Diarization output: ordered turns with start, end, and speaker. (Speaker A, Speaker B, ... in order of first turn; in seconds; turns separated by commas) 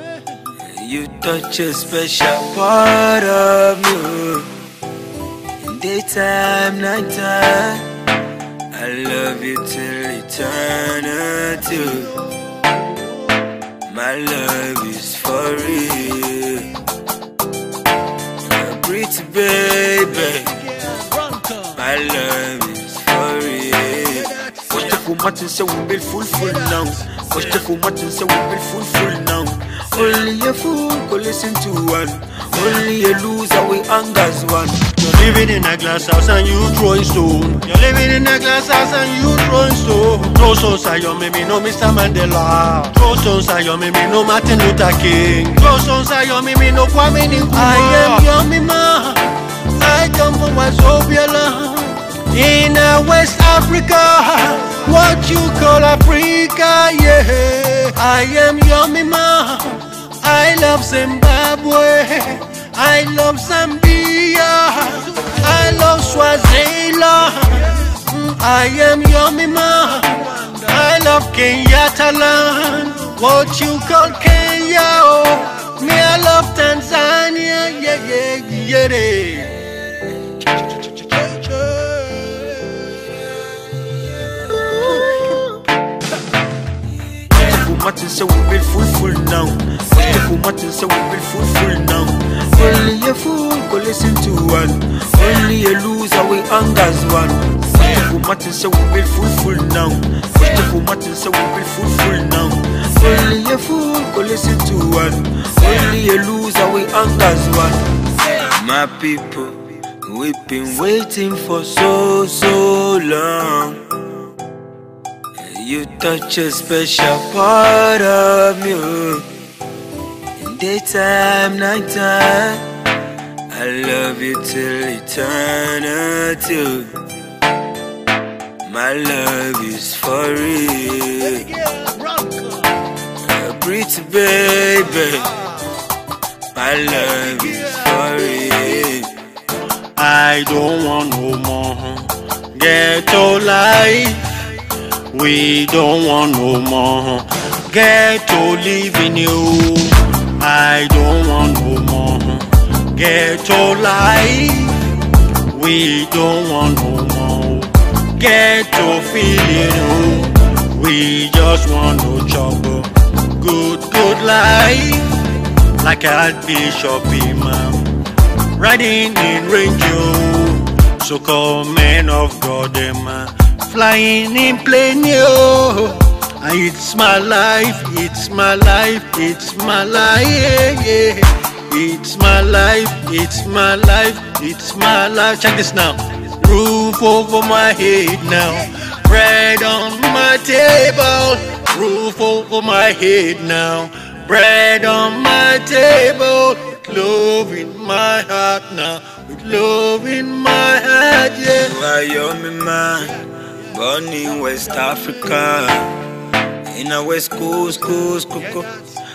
Speaker A: 0.7-4.5, Speaker A: 5.6-7.9, Speaker A: 8.7-12.1, Speaker B: 11.7-12.1, Speaker A: 13.9-16.7, Speaker A: 18.4-20.5, Speaker B: 20.4-21.8, Speaker A: 21.8-34.9, Speaker B: 24.1-24.8, Speaker B: 35.0-79.7, Speaker B: 80.5-82.6, Speaker A: 87.2-113.8, Speaker A: 115.4-119.3, Speaker A: 120.4-122.7, Speaker A: 123.5-127.0, Speaker A: 128.6-131.5, Speaker B: 131.2-132.8, Speaker A: 133.2-135.3, Speaker B: 135.0-135.6, Speaker A: 136.5-139.1, Speaker B: 137.1-137.9, Speaker B: 139.9-144.2, Speaker B: 145.1-154.8, Speaker B: 155.5-165.2, Speaker B: 165.8-167.9, Speaker B: 168.5-201.7, Speaker A: 201.5-203.2, Speaker A: 203.7-206.1, Speaker A: 206.7-208.7